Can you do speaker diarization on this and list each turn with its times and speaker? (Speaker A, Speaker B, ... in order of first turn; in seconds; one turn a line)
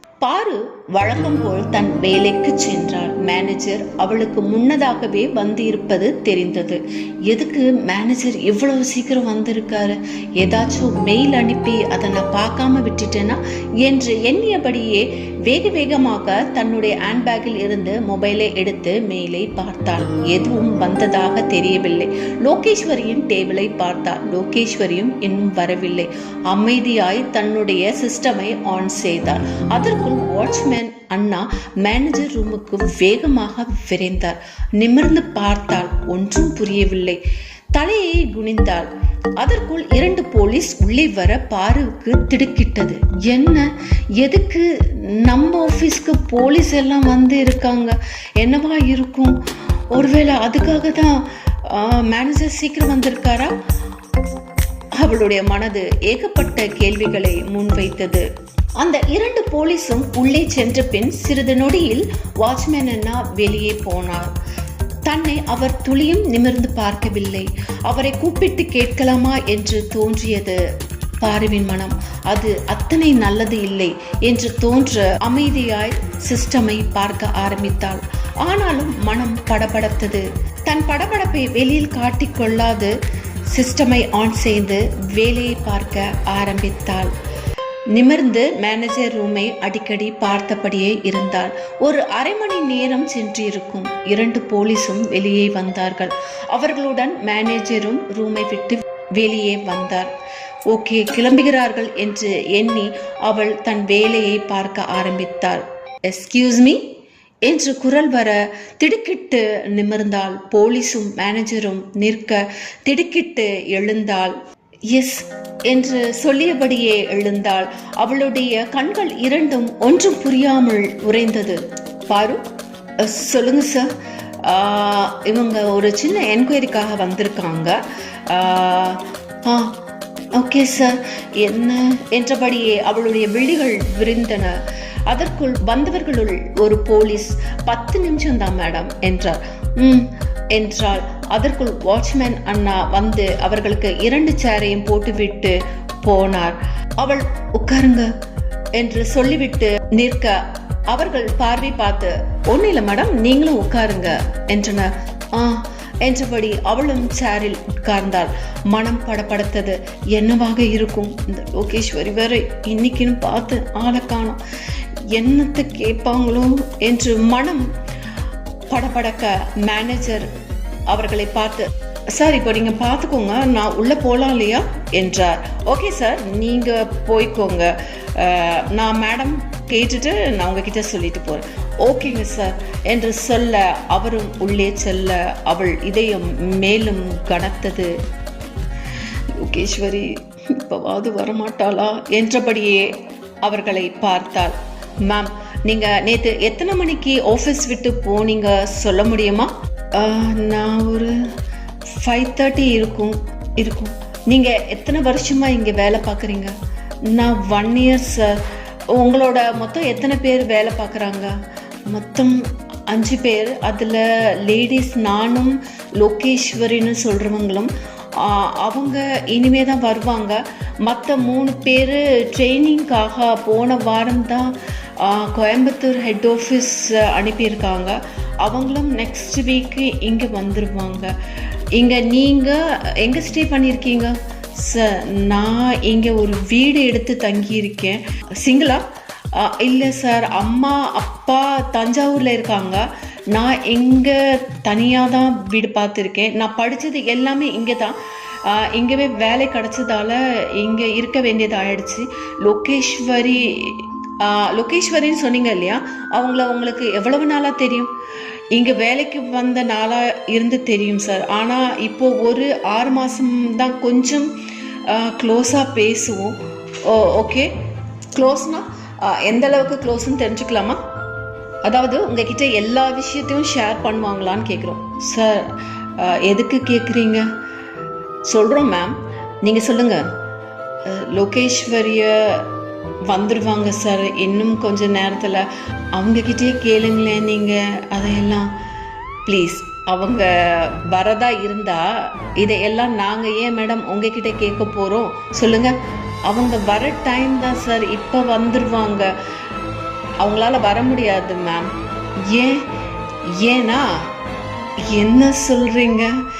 Speaker A: 0.2-37.2
Speaker A: 37.7-38.9
Speaker A: 39.4-43.7
Speaker A: 44.2-49.4
Speaker A: 49.9-53.5
Speaker A: 55.0-58.2
Speaker A: 58.8-64.3
Speaker A: 65.1-70.6
Speaker A: 71.2-82.9
Speaker A: 83.5-87.1
Speaker A: 87.9-100.1
Speaker A: 100.7-106.8
Speaker A: 107.5-114.4
Speaker A: 114.9-122.4
Speaker A: 123.0-123.9
Speaker A: 124.4-127.8
Speaker A: 128.3-129.7
Speaker A: 130.4-134.6
Speaker A: 135.1-148.1
Speaker A: 148.8-164.4
Speaker A: 165.1-167.7
Speaker A: 168.7-170.3
Speaker A: 170.9-187.9
Speaker A: 189.4-192.9
Speaker A: 193.4-201.1
Speaker A: 201.9-206.5
Speaker A: 207.1-208.4
Speaker A: 208.9-211.3
Speaker A: 211.9-231.1
Speaker A: 231.8-238.8
Speaker A: 239.4-257.9
Speaker A: 258.5-264.3
Speaker A: 264.9-267.5
Speaker A: 268.1-270.8
Speaker A: 271.6-277.2
Speaker A: 278.3-280.0
Speaker A: 280.9-282.4
Speaker A: 283.1-288.5
Speaker A: 289.3-291.9
Speaker A: 292.4-295.8
Speaker A: 296.3-299.1
Speaker A: 300.2-301.7
Speaker A: 302.3-302.6
Speaker A: 303.4-303.9
Speaker A: 304.9-306.1